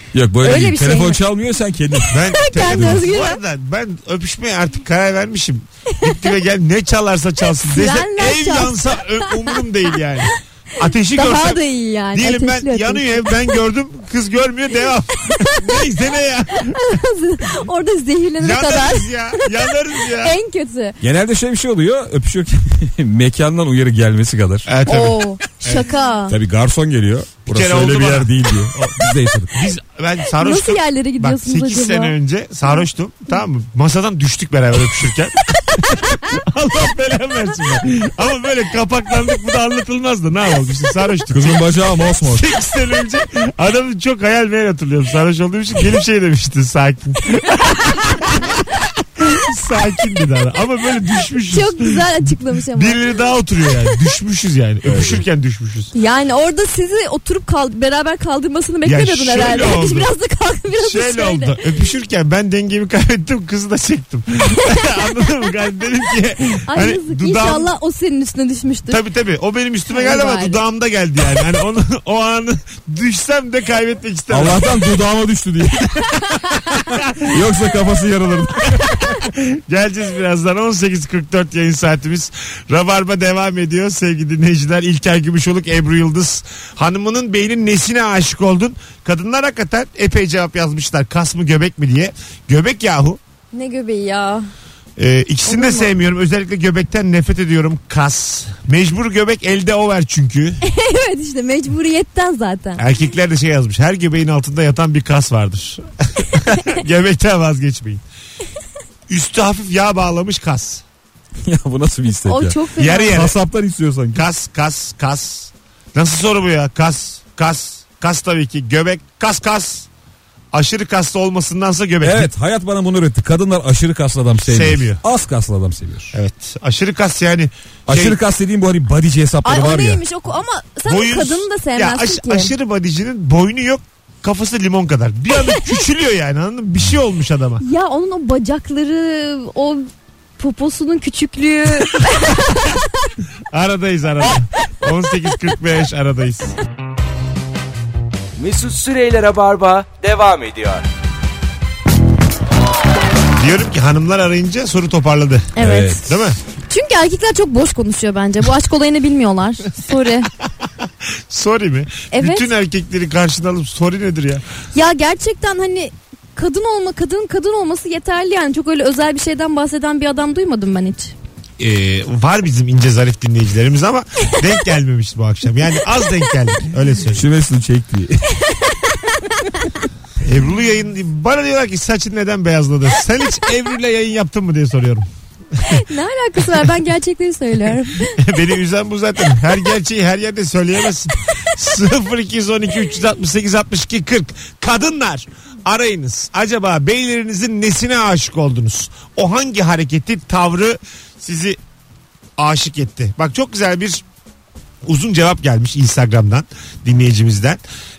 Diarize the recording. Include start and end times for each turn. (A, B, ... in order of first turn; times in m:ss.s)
0:00.1-0:03.0 A
0:00.4-0:01.2 B
0:02.0-0:03.4 B
0:02.1-0:11.6 C
0:07.6-0:09.5 B
0:11.1-0:13.4 B
0:12.1-0:16.9 C
0:16.6-0:21.0 B
0:18.4-0:20.3 C
0:21.0-0:24.7 A
0:24.7-0:25.9 C
0:24.9-0:26.3 B
0:26.3-0:29.7 A
0:27.5-0:29.0 C
0:29.5-0:41.6 C
0:30.4-0:32.2 B
0:41.3-0:42.4 A
0:42.2-0:52.1 C
0:51.5-0:53.0 B
0:52.7-0:55.9 C
0:54.8-0:55.2 A
0:55.9-1:01.6 B
0:58.8-1:00.1 C
1:00.7-1:07.7 C
1:06.7-1:09.0 B
1:08.9-1:14.8 C
1:09.9-1:10.6 B
1:14.3-1:16.1 A
1:17.3-1:18.8 A
1:18.7-1:33.2 C
1:33.5-1:34.5 B
1:35.0-1:40.6 C
1:35.5-1:35.9 B
1:40.6-1:42.8 B
1:42.8-1:48.0 C
1:49.1-1:50.8 C
1:51.4-1:54.2 A
1:52.3-1:53.3 B
1:52.8-1:53.4 C
1:54.2-1:59.9 C
2:00.5-2:02.3 C
2:02.0-2:06.1 A
2:04.5-2:05.0 C
2:06.1-2:08.2 C
2:07.9-2:10.0 A
2:09.4-2:12.5 B
2:10.9-2:17.6 C
2:17.6-2:19.9 B
2:20.4-2:22.8 B
2:23.5-2:26.6 C
2:28.4-2:30.8 D
2:33.4-2:35.5 C
2:35.6-2:36.1 B
2:35.6-2:36.1 A
2:36.1-2:36.4 C
2:36.7-2:40.3 B
2:41.3-2:44.4 C
2:42.1-2:42.5 B
2:44.7-2:51.1 B
2:51.6-2:57.2 C
2:57.1-2:58.2 A
2:59.4-2:59.7 B
3:00.2-3:05.1 C
3:05.7-3:08.2 B
3:08.2-3:21.6 C
3:22.4-3:24.0 C
3:24.8-3:27.6 C